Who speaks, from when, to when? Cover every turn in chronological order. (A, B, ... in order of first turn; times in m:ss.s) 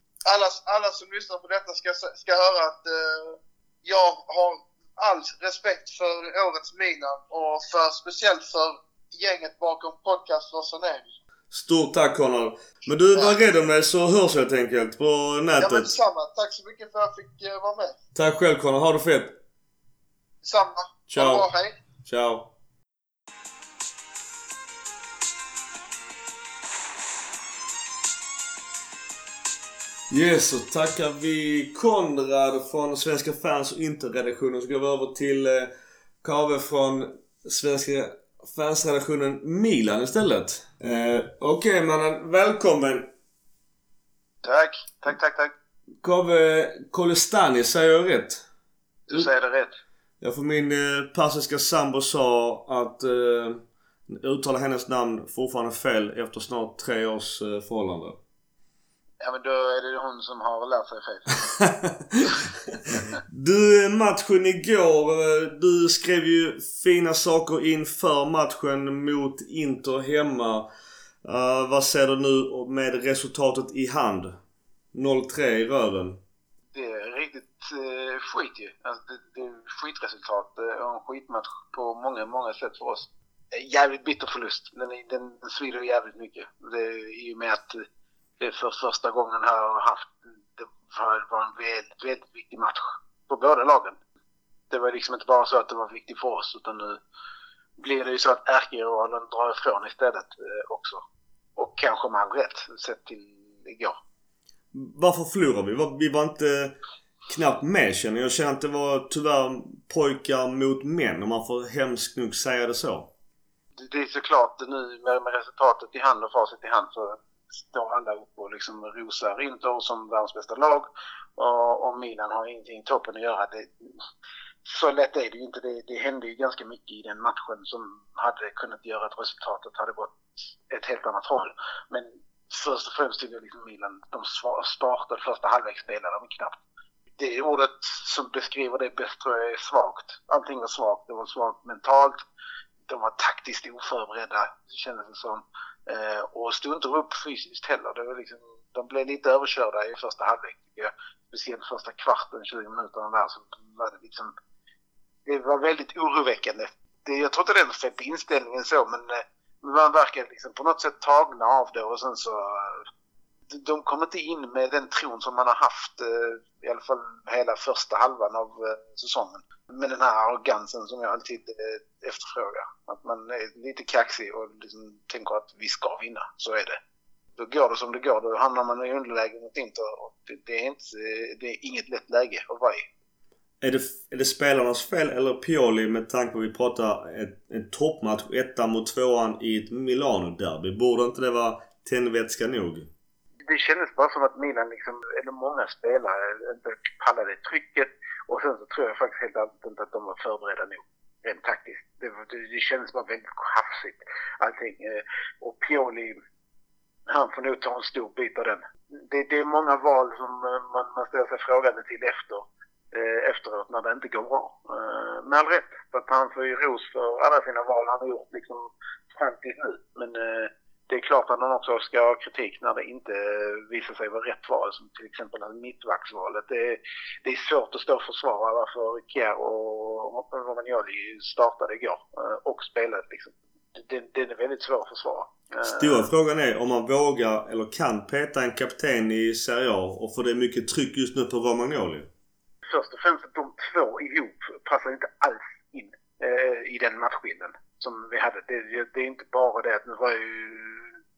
0:00.2-0:11.1 A
0:11.5-0:16.0 B
0:15.6-0:17.9 A
0:18.1-0:19.4 B
0:20.4-0:21.7 A
0:21.1-0:21.5 B
0:22.0-0:22.5 B
0:30.1-0:35.7 B
0:36.2-0:43.1 B
0:44.4-0:45.5 C
0:46.0-0:48.4 B
0:49.1-0:49.8 C
0:50.2-0:58.2 B
0:59.2-1:01.4 C
1:01.6-1:02.4 B
1:03.3-1:10.7 B
1:11.2-1:14.4 B
1:14.9-1:16.2 B
1:16.7-1:27.8 C
1:28.4-1:34.0 C
1:34.7-1:37.0 C
1:37.8-1:41.0 C
1:41.6-1:44.0 C
1:44.7-1:46.8 B
1:47.3-1:53.1 B
1:53.8-2:03.7 C
2:04.6-2:16.6 C
2:17.2-2:22.2 C
2:22.9-2:34.3 C
2:35.2-2:42.8 C
2:43.5-2:56.8 C
2:57.4-3:02.8 C
3:03.6-3:12.9 B
3:13.5-3:26.2 C
3:27.1-3:56.0 C
3:55.6-4:02.1 B
4:02.6-4:10.9 C